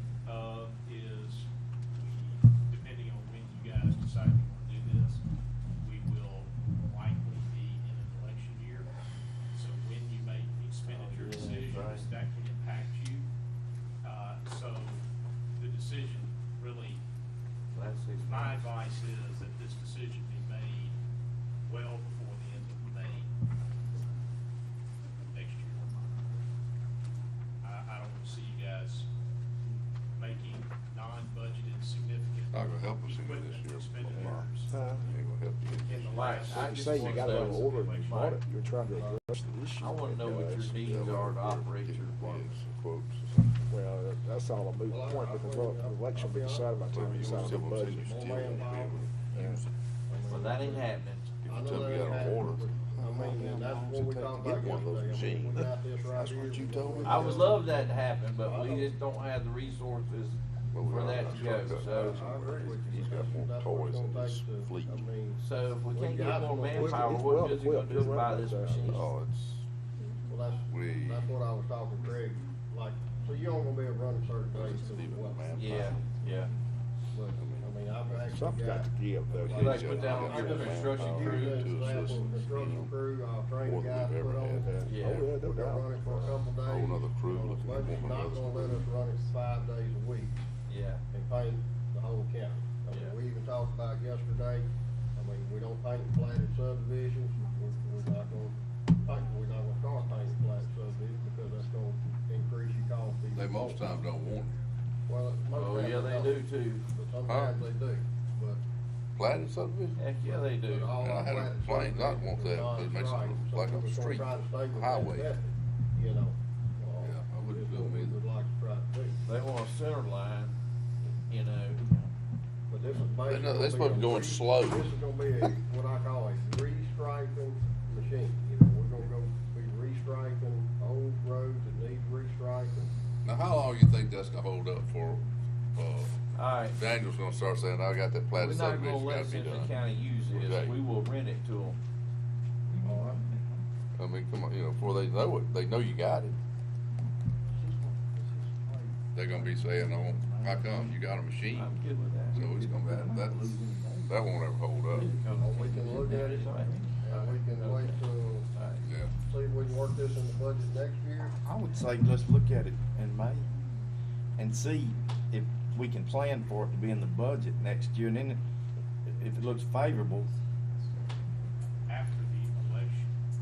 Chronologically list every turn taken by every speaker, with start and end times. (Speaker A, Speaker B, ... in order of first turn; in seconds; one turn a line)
Speaker A: 0.3-5.2
Speaker A: 5.8-9.0
Speaker A: 9.5-13.3
Speaker B: 10.9-12.1
Speaker A: 14.0-15.0
Speaker A: 15.6-17.0
Speaker B: 17.7-18.7
Speaker A: 18.2-21.0
Speaker A: 21.7-23.3
Speaker A: 25.3-26.1
Speaker A: 27.6-29.1
Speaker A: 30.2-34.8
Speaker C: 32.5-34.2
Speaker D: 34.2-35.1
Speaker C: 35.0-36.4
Speaker A: 35.9-38.1
Speaker B: 36.1-38.4
Speaker D: 36.5-40.9
Speaker E: 38.9-39.2
Speaker B: 39.8-42.6
Speaker C: 40.8-43.6
Speaker D: 43.7-48.6
Speaker E: 44.9-49.2
Speaker C: 46.9-49.7
Speaker D: 49.3-49.6
Speaker E: 50.1-50.9
Speaker B: 50.3-51.4
Speaker C: 51.4-53.8
Speaker E: 51.5-57.8
Speaker C: 54.5-57.5
Speaker B: 57.0-62.2
Speaker E: 58.4-58.9
Speaker C: 60.7-65.0
Speaker E: 61.7-67.4
Speaker B: 65.4-69.1
Speaker D: 66.8-69.0
Speaker C: 68.9-69.7
Speaker E: 70.3-76.0
Speaker C: 70.7-71.2
Speaker C: 74.5-76.0
Speaker B: 75.5-76.5
Speaker E: 77.1-90.5
Speaker C: 77.4-77.7
Speaker D: 78.2-79.7
Speaker B: 79.5-81.7
Speaker C: 79.5-82.9
Speaker C: 83.6-84.7
Speaker D: 84.6-86.4
Speaker B: 84.8-85.3
Speaker C: 86.6-88.9
Speaker B: 90.7-91.0
Speaker E: 91.1-103.8
Speaker C: 103.3-104.6
Speaker E: 105.1-108.6
Speaker B: 105.5-106.9
Speaker C: 107.3-107.6
Speaker C: 109.2-110.0
Speaker B: 110.0-110.9
Speaker E: 110.2-119.2
Speaker C: 111.0-115.3
Speaker C: 117.0-118.2
Speaker B: 119.3-120.6
Speaker B: 121.3-122.1
Speaker E: 122.7-132.9
Speaker C: 123.3-124.9
Speaker C: 133.2-135.2
Speaker C: 135.8-139.8
Speaker B: 136.3-136.8
Speaker B: 138.3-141.8
Speaker C: 140.3-140.8
Speaker F: 142.7-143.7
Speaker E: 142.8-143.2
Speaker C: 144.0-146.4
Speaker F: 147.6-151.0
Speaker C: 149.2-151.8
Speaker B: 151.5-152.4
Speaker C: 152.3-155.1
Speaker F: 152.3-154.2
Speaker B: 154.8-158.9
Speaker E: 155.4-158.5
Speaker F: 156.1-156.9
Speaker C: 158.8-159.1
Speaker E: 159.2-161.3
Speaker F: 161.4-163.5
Speaker F: 164.4-168.4
Speaker F: 169.0-170.3
Speaker A: 171.9-173.1